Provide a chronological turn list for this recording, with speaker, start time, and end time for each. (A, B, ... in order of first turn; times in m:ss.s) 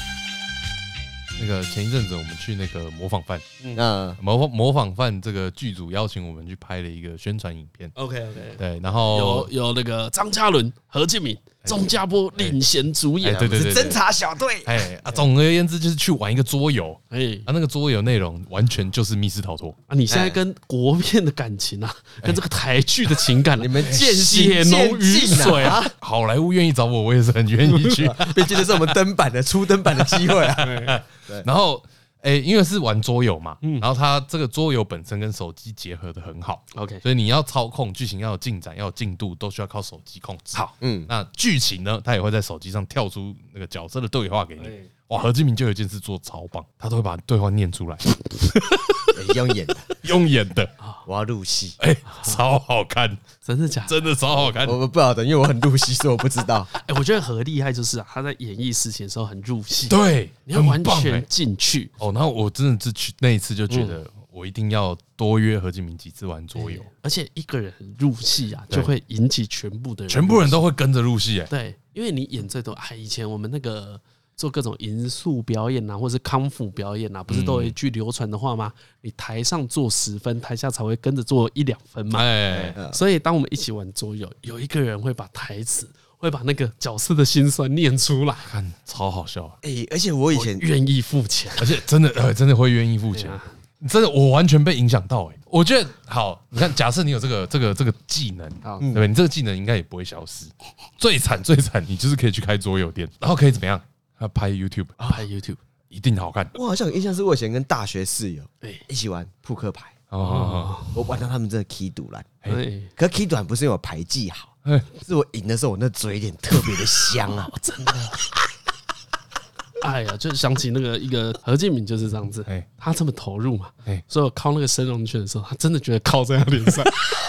0:01.4-0:03.4 A
0:03.8-0:04.2 B
0:04.2-0:07.9 A
0:08.0-0:13.6 C
0:08.6-0:09.5 A
0:11.7-0:12.6 A
0:13.2-0:14.0 A
0:13.5-0:15.2 B
0:14.6-0:19.8 A
0:17.1-0:17.5 C
0:19.9-0:25.9 C
0:20.1-0:20.4 B
0:23.6-0:25.9 B
0:26.0-0:28.9 A
0:27.9-0:31.5 B
0:30.1-0:49.4 A
0:30.6-0:31.0 C
0:36.7-0:37.0 C
0:40.8-0:41.1 B
0:44.6-0:44.9 C
0:49.1-0:49.9 B
0:50.0-0:50.7 A
0:51.0-0:51.8 B
0:51.8-0:53.2 A
0:52.1-0:52.4 C
0:53.4-0:54.0 C
0:53.9-0:54.8 A
0:54.4-0:56.7 B
0:56.7-1:01.9 C
0:59.9-1:01.3 A
1:02.0-1:06.9 A
1:03.7-1:04.0 C
1:06.6-1:10.6 C
1:10.1-1:11.5 A
1:11.5-1:22.3 C
1:17.3-1:17.8 A
1:22.1-1:22.8 A
1:22.5-1:23.0 B
1:22.8-1:28.5 C
1:28.5-1:29.6 A
1:29.6-1:30.6 B
1:30.3-1:31.8 C
1:31.6-1:45.1 A
1:33.1-1:33.4 C
1:38.6-1:38.9 C
1:38.8-1:39.0 B
1:45.0-1:45.6 C
1:45.9-1:46.5 A
1:46.6-1:50.0 B
1:50.1-1:50.8 A
1:50.2-1:51.0 C
1:50.9-1:52.4 B
1:52.5-1:52.9 C
1:53.0-1:57.5 B
1:57.3-1:58.3 C
1:59.8-2:07.0 C